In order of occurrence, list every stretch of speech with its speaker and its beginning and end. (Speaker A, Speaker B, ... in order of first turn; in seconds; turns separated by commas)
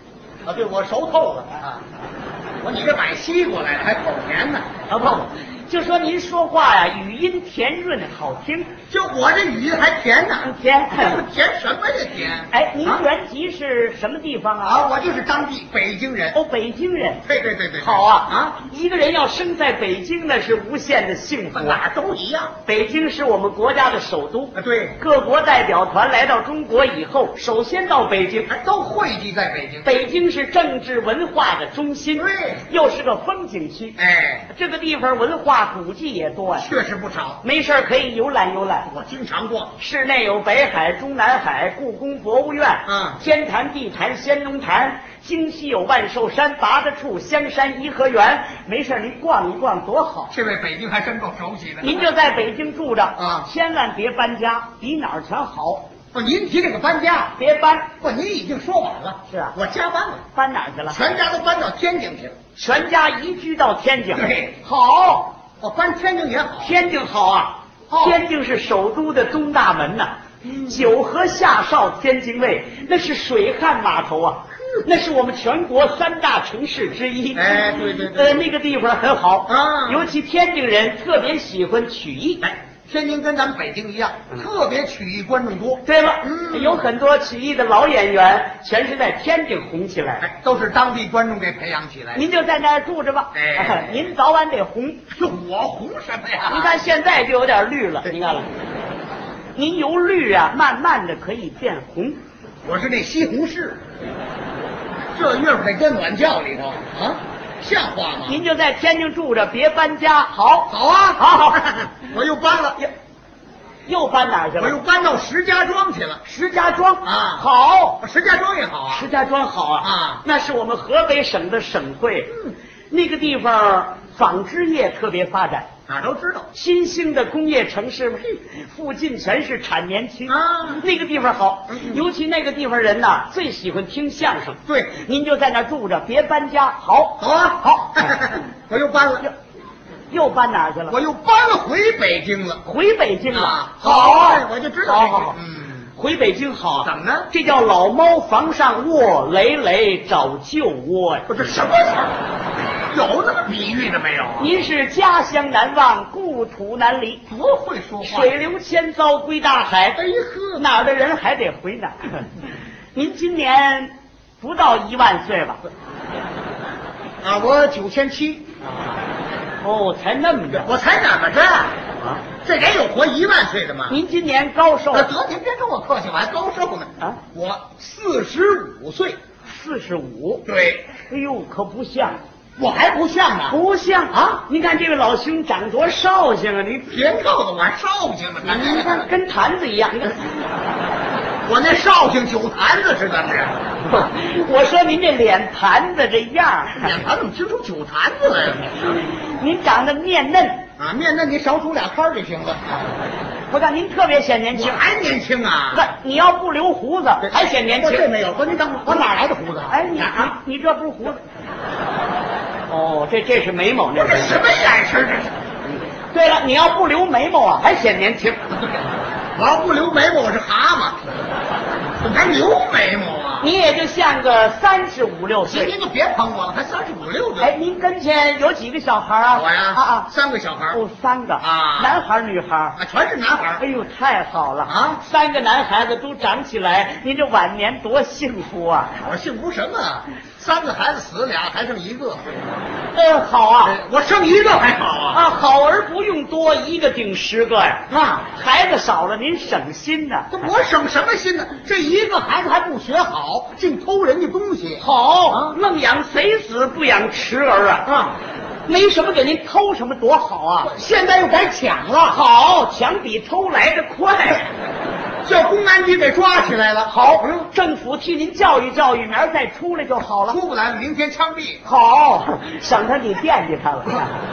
Speaker A: 0.5-1.8, Speaker A: 2.6-4.7, Speaker B: 4.9-8.8, Speaker A: 8.9-13.0, Speaker B: 10.4-11.2, Speaker B: 12.5-14.9, Speaker A: 14.6-16.4, Speaker B: 16.3-17.2, Speaker A: 17.2-18.6, Speaker B: 17.8-21.8, Speaker A: 21.5-22.6, Speaker B: 22.7-28.5, Speaker A: 24.6-25.0, Speaker A: 28.5-30.0, Speaker B: 29.8-34.0, Speaker A: 32.2-32.7, Speaker A: 34.0-34.5, Speaker B: 34.5-36.7, Speaker A: 36.6-37.4, Speaker B: 37.4-38.9, Speaker A: 38.9-39.8, Speaker B: 39.8-50.3, Speaker A: 42.9-43.2, Speaker A: 50.3-52.0, Speaker B: 51.8-55.9, Speaker A: 53.2-53.5, Speaker A: 56.1-57.4, Speaker B: 57.4-57.9, Speaker A: 58.0-60.2, Speaker B: 59.3-59.5, Speaker B: 60.3-61.1, Speaker A: 60.9-62.4, Speaker B: 62.5-65.4, Speaker A: 64.1-64.6, Speaker A: 65.6-66.8, Speaker B: 66.6-82.4, Speaker A: 67.9-68.2, Speaker A: 77.3-78.4, Speaker A: 79.5-80.1, Speaker A: 82.4-86.8, Speaker B: 85.8-90.2, Speaker A: 90.2-92.3, Speaker B: 92.1-95.1, Speaker A: 93.3-94.1, Speaker A: 95.1-96.8, Speaker B: 96.5-98.5, Speaker B: 99.5-102.2, Speaker A: 102.6-103.8, Speaker A: 105.1-108.4, Speaker B: 108.2-111.7, Speaker A: 110.7-112.8, Speaker B: 113.9-114.8, Speaker A: 114.6-116.2, Speaker B: 116.2-118.0, Speaker A: 117.0-117.5, Speaker A: 118.0-119.1, Speaker B: 118.9-125.7, Speaker A: 119.8-120.2, Speaker A: 125.9-126.5, Speaker B: 126.5-138.1, Speaker A: 130.3-130.8, Speaker A: 131.7-132.1, Speaker A: 134.7-135.0, Speaker A: 137.2-139.3, Speaker B: 140.1-141.0, Speaker A: 140.9-142.6, Speaker B: 142.6-145.4, Speaker A: 143.3-145.9, Speaker B: 146.0-151.3, Speaker A: 146.8-147.3, Speaker A: 151.3-152.2, Speaker A: 152.9-154.5, Speaker B: 154.4-157.2, Speaker A: 157.3-158.4, Speaker B: 158.0-160.0, Speaker A: 160.0-160.7, Speaker B: 160.6-162.3, Speaker B: 162.9-165.6, Speaker A: 167.2-169.0, Speaker B: 169.6-170.7, Speaker A: 170.5-171.8, Speaker A: 172.4-174.0, Speaker B: 173.9-175.1, Speaker A: 174.9-179.2, Speaker B: 179.5-180.5, Speaker A: 180.5-180.9, Speaker B: 181.0-182.2, Speaker A: 182.6-183.6, Speaker B: 183.5-187.0, Speaker A: 186.9-189.1, Speaker B: 188.4-190.2, Speaker A: 191.4-193.7, Speaker B: 193.8-196.9, Speaker A: 196.8-199.0, Speaker B: 198.9-200.7, Speaker A: 200.8-202.9, Speaker B: 203.5-204.8, Speaker A: 204.5-205.9, Speaker B: 205.7-208.1, Speaker A: 207.2-210.2, Speaker B: 209.7-211.2, Speaker B: 212.7-214.4, Speaker A: 213.9-215.4, Speaker B: 216.1-218.5, Speaker A: 219.3-221.1, Speaker A: 222.0-223.5, Speaker B: 223.4-225.7, Speaker A: 225.5-227.5, Speaker B: 227.4-230.1, Speaker A: 229.3-230.8, Speaker B: 230.7-232.8, Speaker A: 231.4-232.0, Speaker A: 232.8-233.6, Speaker B: 233.6-239.1, Speaker A: 234.7-235.0, Speaker A: 239.0-242.2, Speaker B: 242.9-243.8, Speaker A: 243.6-245.2, Speaker B: 245.1-250.5, Speaker A: 247.9-248.3, Speaker A: 250.3-255.6, Speaker B: 254.8-257.9, Speaker A: 257.9-258.2, Speaker B: 258.6-260.7, Speaker A: 260.6-262.2, Speaker B: 262.1-264.5, Speaker A: 265.2-267.5, Speaker B: 266.9-270.4, Speaker A: 270.3-271.6, Speaker B: 271.6-274.1